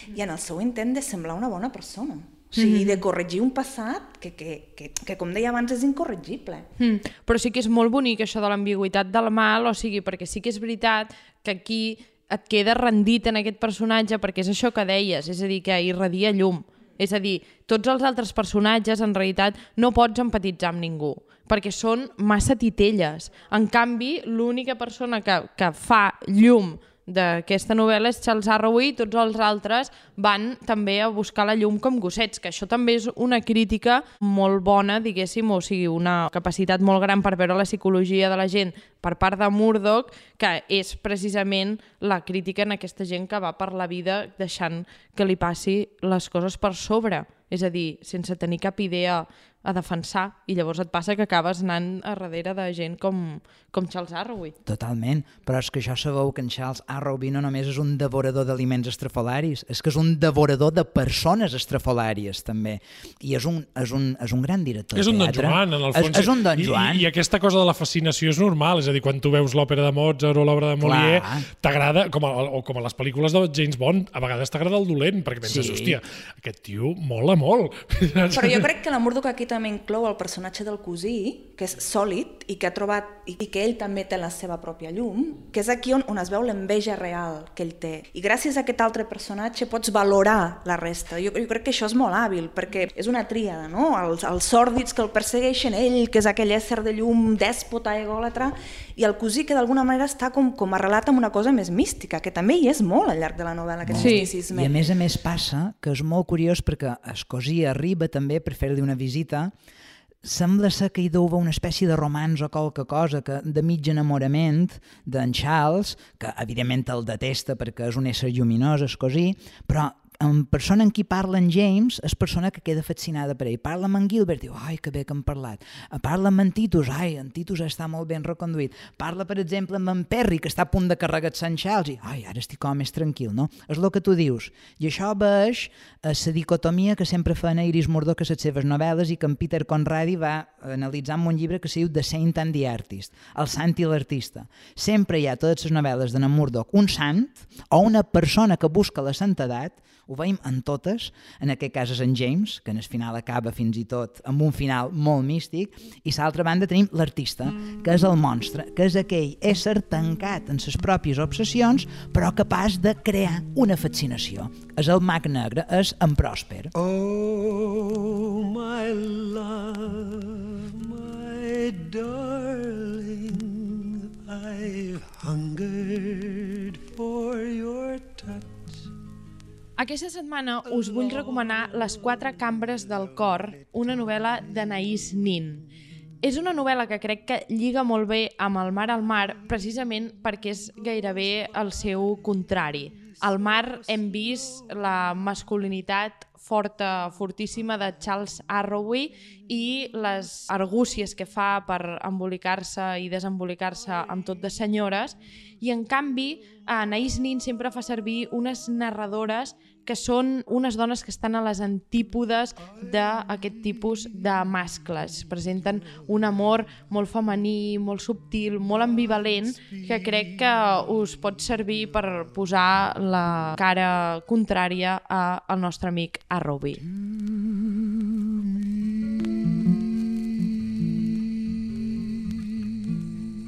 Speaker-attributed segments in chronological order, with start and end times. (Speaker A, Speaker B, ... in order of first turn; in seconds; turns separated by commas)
Speaker A: 0.1-6.7, Speaker B: 2.6-3.0, Speaker B: 6.8-54.5, Speaker C: 54.6-67.0, Speaker D: 65.0-78.7, Speaker C: 70.8-71.5, Speaker C: 75.4-76.0, Speaker A: 78.3-104.8, Speaker C: 103.9-109.5, Speaker B: 103.9-104.3, Speaker C: 110.2-166.7, Speaker E: 166.8-178.8, Speaker B: 179.8-185.7, Speaker E: 181.0-181.5, Speaker E: 182.9-183.3, Speaker B: 186.2-226.8, Speaker C: 226.9-229.3, Speaker C: 232.0-232.4